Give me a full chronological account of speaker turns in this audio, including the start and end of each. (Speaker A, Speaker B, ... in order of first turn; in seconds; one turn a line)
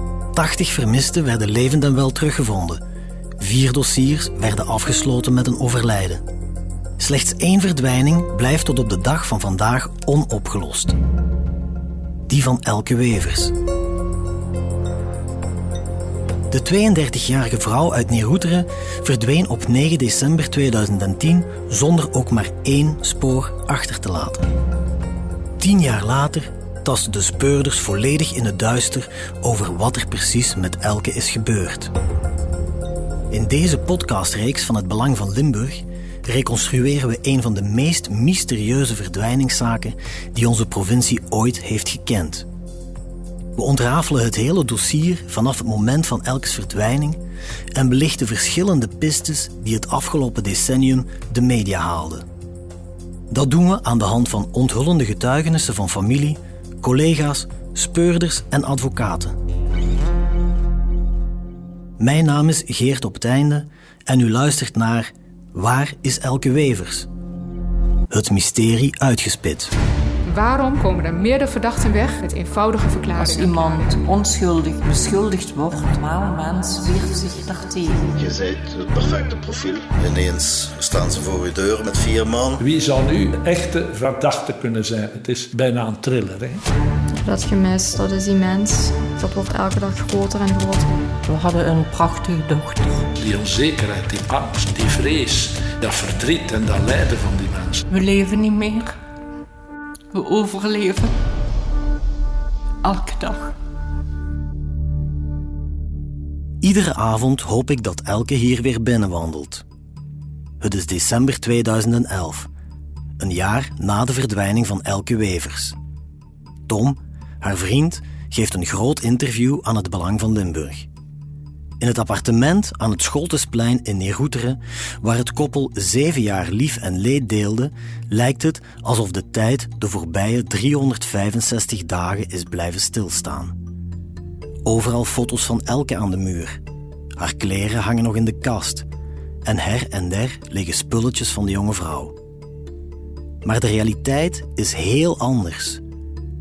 Speaker A: 0.3-2.8
Speaker A: 3.4-6.2
Speaker A: 7.0-11.0
Speaker A: 12.3-13.5
Speaker A: 16.5-24.5
Speaker A: 25.6-31.9
Speaker A: 33.3-42.5
Speaker A: 43.5-47.2
Speaker A: 47.7-52.2
Speaker A: 53.3-59.4
Speaker A: 62.0-67.1
Speaker A: 68.1-69.7
Speaker B: 70.2-73.9
Speaker C: 73.2-78.1
Speaker D: 78.1-82.6
Speaker E: 82.6-86.6
Speaker F: 87.2-90.9
Speaker C: 91.2-93.1
Speaker E: 93.2-97.9
Speaker C: 97.9-99.0
Speaker C: 100.1-101.1
Speaker C: 102.8-103.5
Speaker A: 106.6-109.6
Speaker A: 110.6-112.5
Speaker A: 113.2-115.8
Speaker A: 116.7-120.9
Speaker A: 121.8-133.6
Speaker A: 134.6-136.6
Speaker A: 137.2-138.9
Speaker A: 139.4-142.1
Speaker A: 143.4-145.8